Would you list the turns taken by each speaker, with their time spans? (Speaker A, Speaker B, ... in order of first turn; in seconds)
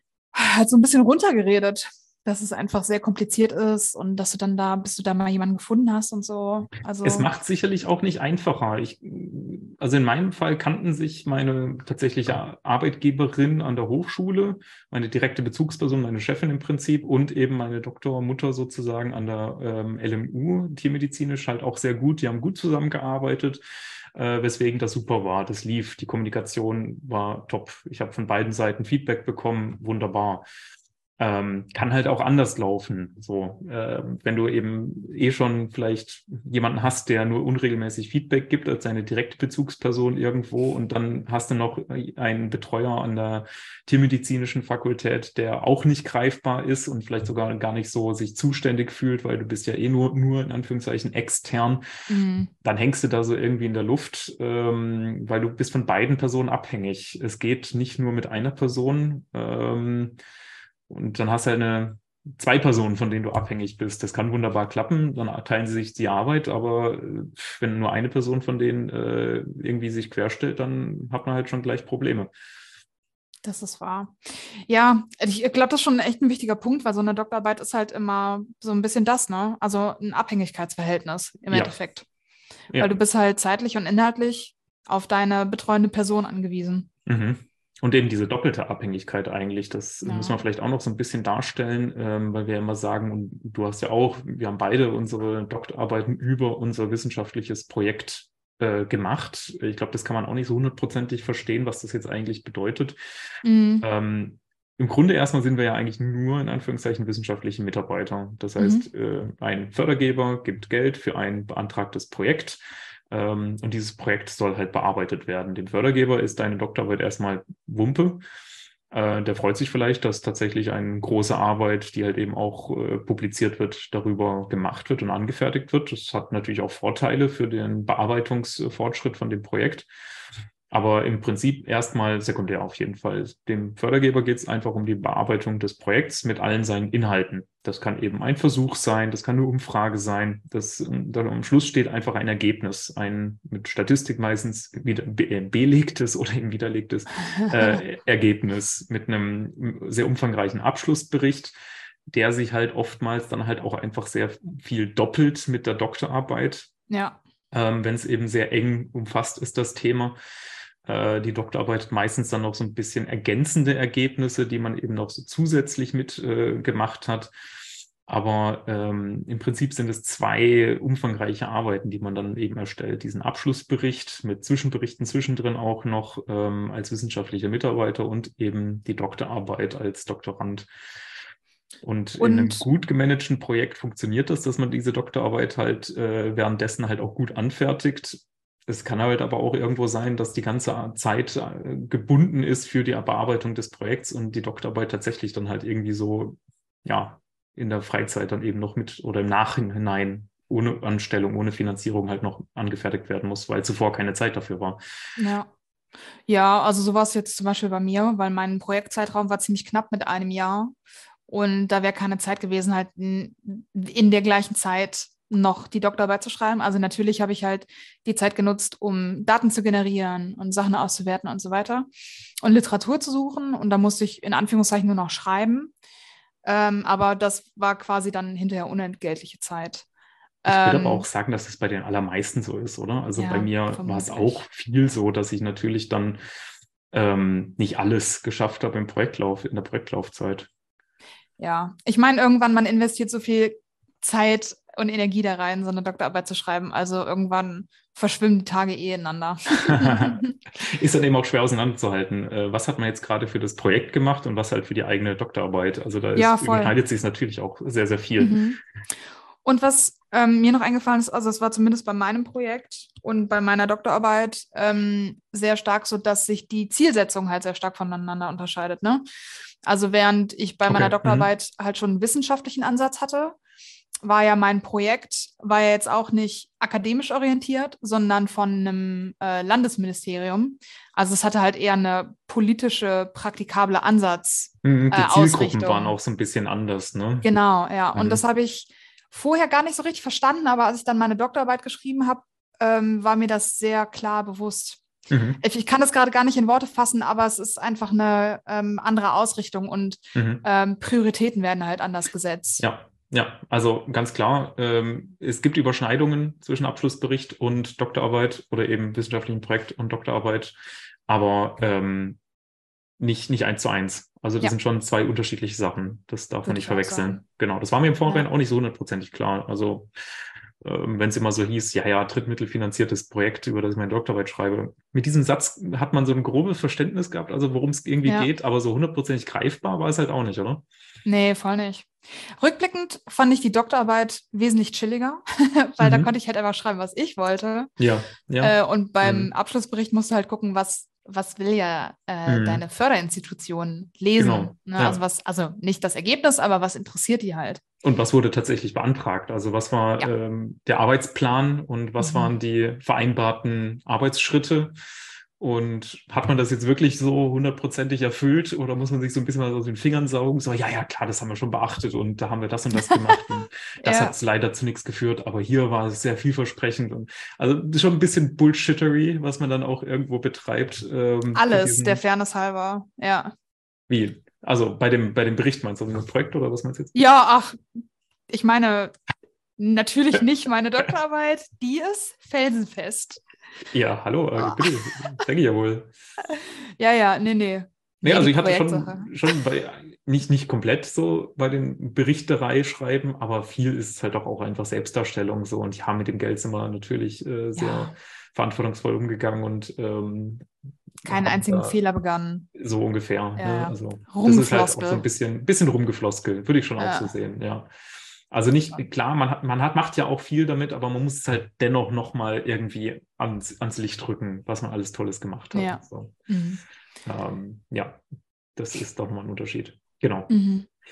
Speaker A: 0.3-7.3, 52.1-52.5, 73.4-82.0, 82.8-86.9, 90.0-90.4, 103.4-103.8, 108.6-108.8, 147.4-147.8, 156.9-157.2, 182.2-182.6, 205.2-205.5, 206.3-210.7, 211.3-221.9, 222.4-225.7, 226.4-229.8, 230.4-231.1, 233.2-234.4, 241.4-250.3, 256.1-256.7, 258.2-258.6, 259.4-269.0, 269.6-273.4, 274.0-285.9, 287.2-294.8, 295.4-302.6, 316.4-317.2, 331.0-337.7, 338.4-347.6, 352.0-352.3, 363.8-364.1, 371.3-373.3, 376.9-377.6, 378.3-378.9, 379.6-383.2, 386.3-389.4, 397.6-397.9, 401.1-402.4, 403.4-405.0, 406.8-407.1, 415.5-416.6, 420.3-420.7
Speaker B: 7.0-23.6, 24.1-30.4, 31.2-51.8, 52.6-60.2, 60.9-72.3, 87.0-103.0, 103.8-112.6, 113.1-118.2, 118.9-129.9, 130.7-151.5, 152.1-156.7, 157.5-160.2, 160.8-167.3, 168.1-180.7, 181.8-204.8, 230.4-236.2, 236.9-240.5, 249.6-258.4, 270.7-271.3, 284.6-287.3, 287.9-288.2, 295.1-295.4, 300.1-300.4, 302.6-310.6, 311.1-312.2, 313.0-319.9, 320.6-330.6, 335.8-336.1, 337.8-339.3, 342.3-342.6, 344.2-345.0, 347.8-354.7, 355.4-372.0, 373.9-376.9, 383.7-385.9, 388.0-400.5, 401.0-401.8, 402.5-407.7, 408.3-416.1, 417.0-418.0, 418.6-420.3